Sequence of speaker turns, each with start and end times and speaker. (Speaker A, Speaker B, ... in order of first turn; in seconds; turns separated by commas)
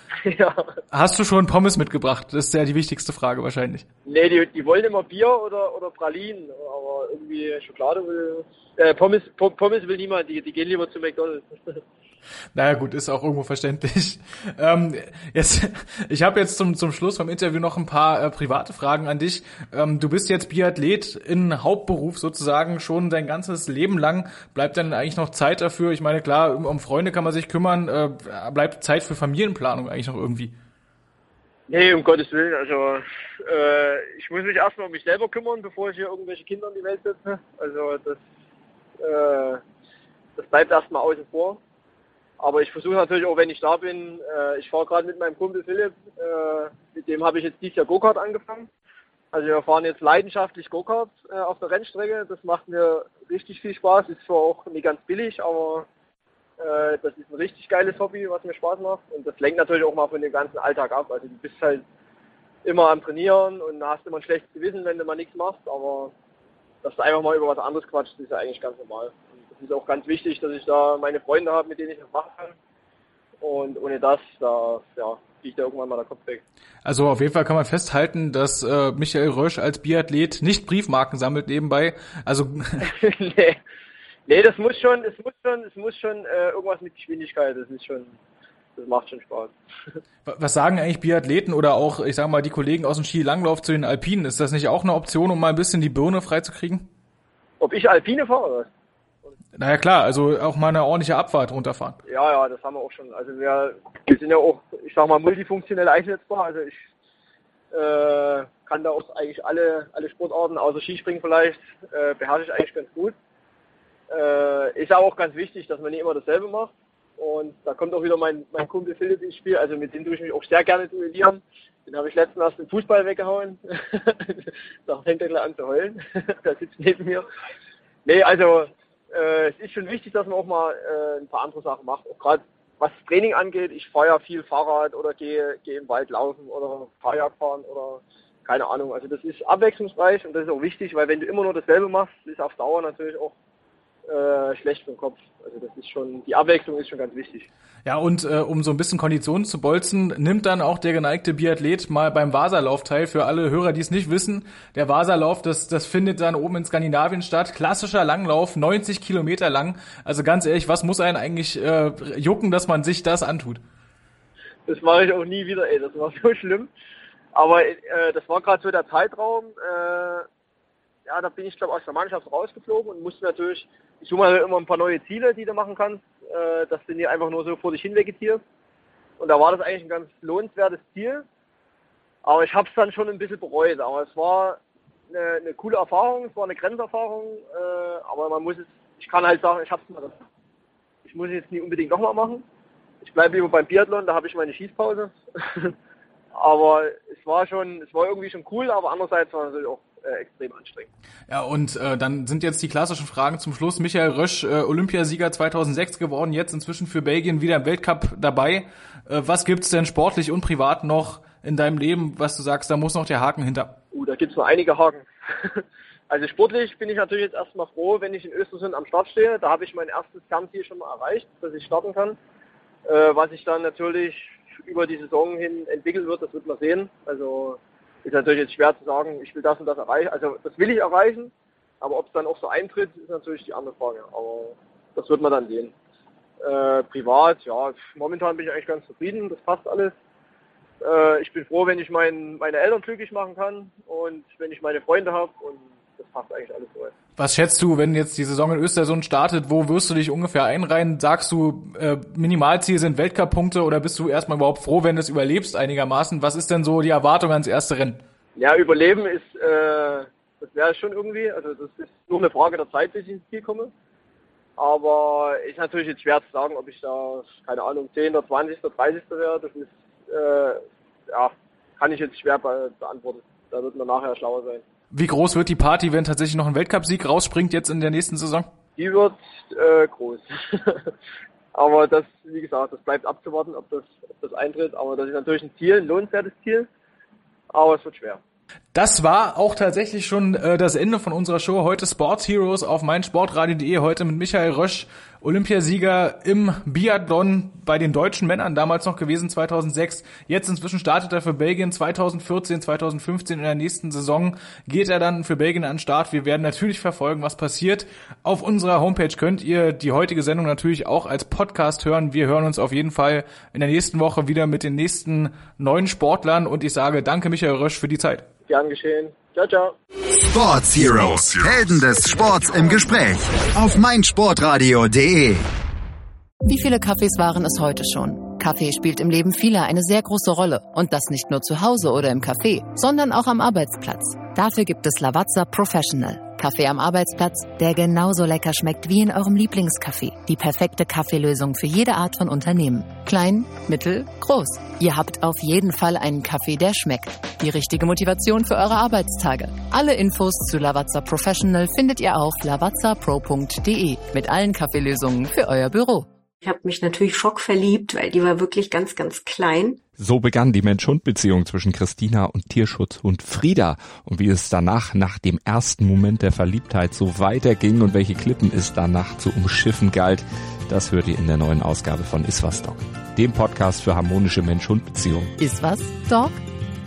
Speaker A: 0.2-0.7, Speaker B: 0.9-3.9, Speaker A: 4.1-11.8, Speaker B: 12.6-30.5, Speaker A: 31.7-38.2, Speaker A: 39.0-39.6, Speaker A: 40.4-41.6, Speaker A: 42.4-48.7, Speaker A: 49.3-55.9, Speaker A: 56.6-61.8, Speaker A: 62.6-66.1, Speaker A: 66.8-72.6, Speaker A: 73.4-76.4, Speaker B: 76.8-82.9, Speaker A: 82.8-83.6, Speaker A: 84.3-88.2, Speaker A: 88.8-89.5, Speaker B: 90.3-96.9, Speaker A: 97.6-98.7, Speaker B: 99.6-102.0, Speaker A: 102.1-106.8, Speaker A: 107.7-113.2, Speaker A: 114.1-127.3, Speaker A: 128.1-143.3, Speaker A: 144.1-147.5, Speaker B: 147.8-163.6, Speaker A: 164.7-166.7, Speaker A: 167.3-170.3, Speaker A: 171.1-178.4, Speaker A: 179.2-181.2, Speaker A: 182.2-184.6, Speaker A: 185.1-190.2, Speaker A: 191.1-192.4, Speaker A: 193.0-195.7, Speaker A: 196.3-200.9, Speaker B: 201.3-213.8, Speaker A: 213.9-222.2, Speaker A: 222.9-235.7, Speaker A: 236.4-239.9, Speaker A: 240.8-246.9, Speaker B: 247.2-258.0, Speaker A: 258.4-263.7, Speaker A: 264.6-274.6, Speaker B: 274.9-278.5, Speaker A: 278.8-280.9, Speaker A: 281.5-286.7, Speaker A: 287.5-288.2, Speaker B: 288.7-318.2, Speaker A: 318.5-319.8, Speaker C: 320.1-325.5, Speaker D: 326.4-356.1, Speaker E: 356.4-359.8, Speaker F: 359.9-375.3, Speaker D: 375.4-376.4